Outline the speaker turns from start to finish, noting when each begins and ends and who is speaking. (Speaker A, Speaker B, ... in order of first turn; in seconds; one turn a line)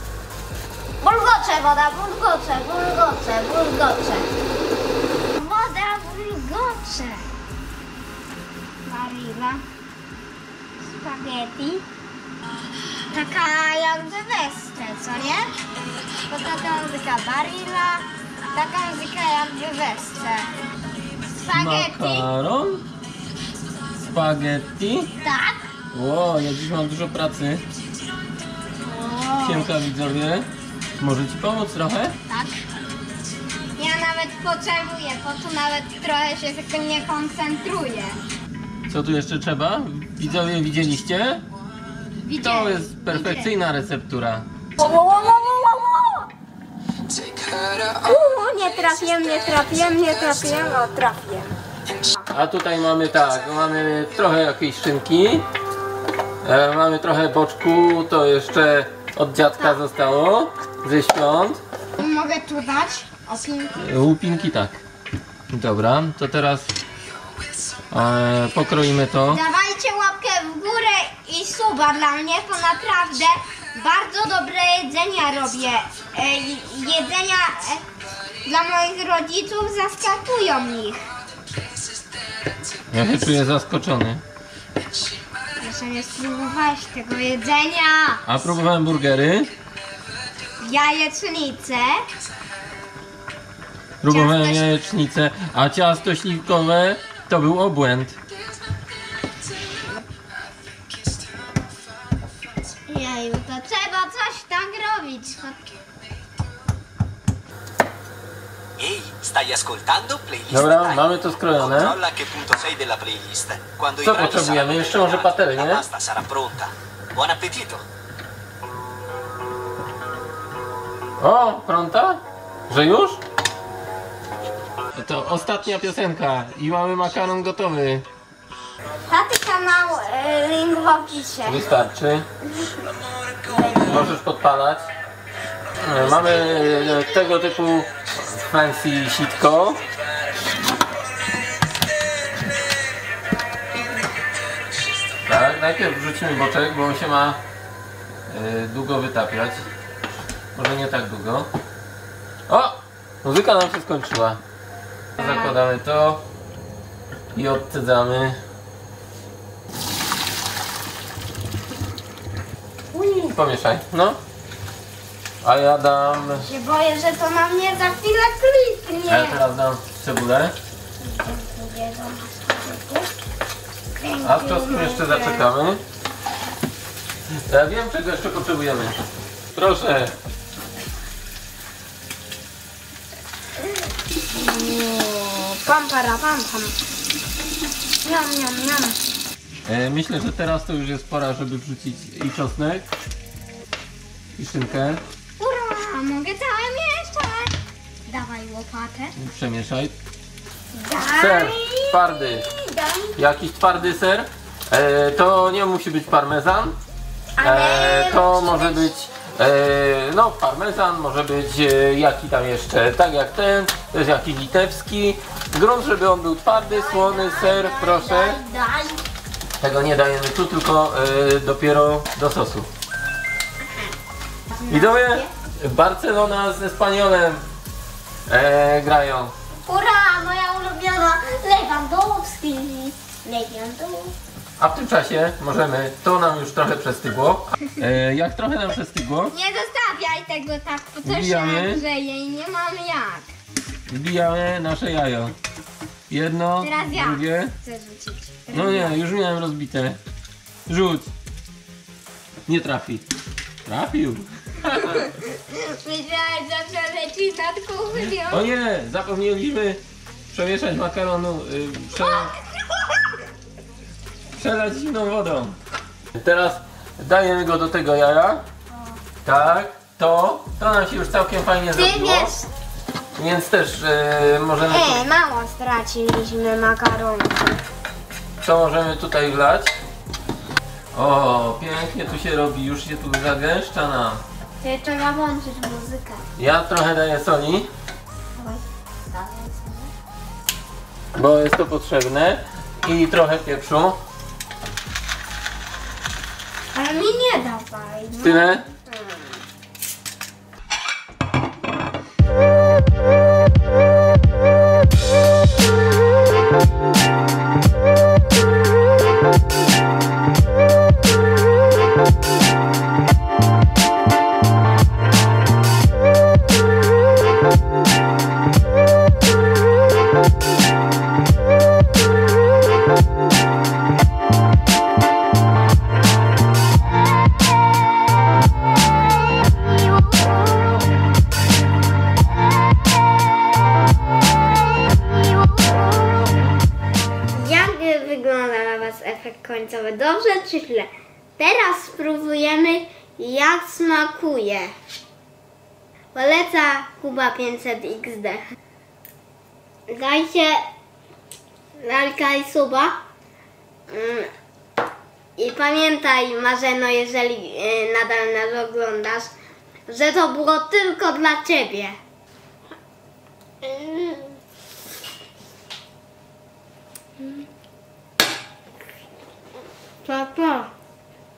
Speaker A: 1.0-4.3
Speaker A: 5.3-7.4
Speaker A: 8.8-9.6
Speaker A: 10.8-11.8
Speaker A: 13.1-15.5
Speaker A: 16.3-20.5
Speaker A: 21.4-22.3
Speaker B: 21.5-22.8
Speaker B: 24.0-25.1
Speaker A: 25.2-25.6
Speaker B: 25.9-27.6
Speaker A: 28.8-29.8
Speaker B: 29.4-30.5
Speaker B: 31.0-32.1
Speaker A: 32.3-32.6
Speaker A: 33.8-38.2
Speaker B: 38.9-41.4
Speaker A: 42.2-43.5
Speaker B: 42.4-44.5
Speaker A: 44.8-46.3
Speaker A: 47.8-51.5
Speaker B: 52.3-55.5
Speaker B: 56.4-61.6
Speaker A: 62.0-63.8
Speaker B: 63.8-64.8
Speaker B: 65.5-66.7
Speaker B: 67.9-69.4
Speaker A: 69.3-77.8
Speaker A: 78.4-81.0
Speaker B: 82.9-84.2
Speaker A: 85.6-88.4
Speaker B: 88.2-89.5
Speaker A: 90.6-92.0
Speaker B: 94.0-98.2
Speaker A: 94.0-94.7
Speaker A: 102.9-105.7
Speaker C: 108.8-117.8
Speaker B: 110.5-112.0
Speaker B: 114.0-115.8
Speaker B: 121.2-123.2
Speaker B: 124.9-128.1
Speaker A: 129.1-131.6
Speaker B: 131.5-132.3
Speaker A: 133.5-134.1
Speaker B: 133.7-134.9
Speaker B: 135.8-139.8
Speaker A: 135.9-137.0
Speaker B: 145.3-147.4
Speaker B: 148.3-149.7
Speaker B: 150.6-151.5
Speaker B: 152.5-154.4
Speaker B: 155.2-156.2
Speaker B: 157.3-158.4
Speaker B: 162.9-164.2
Speaker B: 165.4-166.5
Speaker A: 166.4-169.4
Speaker B: 169.1-170.5
Speaker A: 171.0-173.1
Speaker A: 174.0-175.5
Speaker B: 174.2-175.8
Speaker B: 177.5-179.0
Speaker B: 179.5-180.1
Speaker A: 184.3-186.8
Speaker A: 188.0-189.0
Speaker B: 189.7-192.9
Speaker B: 194.4-195.0
Speaker A: 195.4-197.5
Speaker A: 198.1-199.1
Speaker B: 199.2-199.9
Speaker A: 200.7-203.2
Speaker B: 201.1-202.5
Speaker B: 203.2-206.8
Speaker A: 207.4-208.9
Speaker B: 207.4-218.4
Speaker A: 216.7-219.0
Speaker B: 219.6-222.7
Speaker A: 223.7-223.9
Speaker A: 224.5-225.2
Speaker B: 224.7-227.4
Speaker B: 228.3-229.3
Speaker A: 229.6-234.2
Speaker B: 234.6-239.3
Speaker A: 239.3-243.3
Speaker B: 241.0-241.8
Speaker B: 243.9-245.4
Speaker B: 246.1-247.6
Speaker A: 246.6-249.0
Speaker B: 248.5-250.0
Speaker B: 250.7-251.1
Speaker B: 252.5-253.1
Speaker B: 253.7-255.1
Speaker A: 254.7-258.4
Speaker B: 258.0-259.8
Speaker B: 260.3-262.3
Speaker A: 261.9-262.4
Speaker B: 264.4-265.6
Speaker B: 266.1-268.4
Speaker B: 269.2-272.4
Speaker A: 271.7-272.5
Speaker B: 273.2-275.1
Speaker A: 274.7-277.6
Speaker B: 278.4-279.8
Speaker B: 280.9-284.2
Speaker A: 284.6-286.2
Speaker B: 286.4-287.7
Speaker A: 288.4-289.9
Speaker B: 291.1-294.0
Speaker A: 296.7-299.4
Speaker B: 298.2-298.6
Speaker A: 335.6-336.0
Speaker A: 337.3-344.7
Speaker A: 346.1-348.4
Speaker A: 349.9-350.6
Speaker A: 351.8-353.0
Speaker A: 353.9-354.3
Speaker A: 355.4-359.3
Speaker A: 359.9-362.0
Speaker A: 363.6-364.4
Speaker A: 370.0-370.7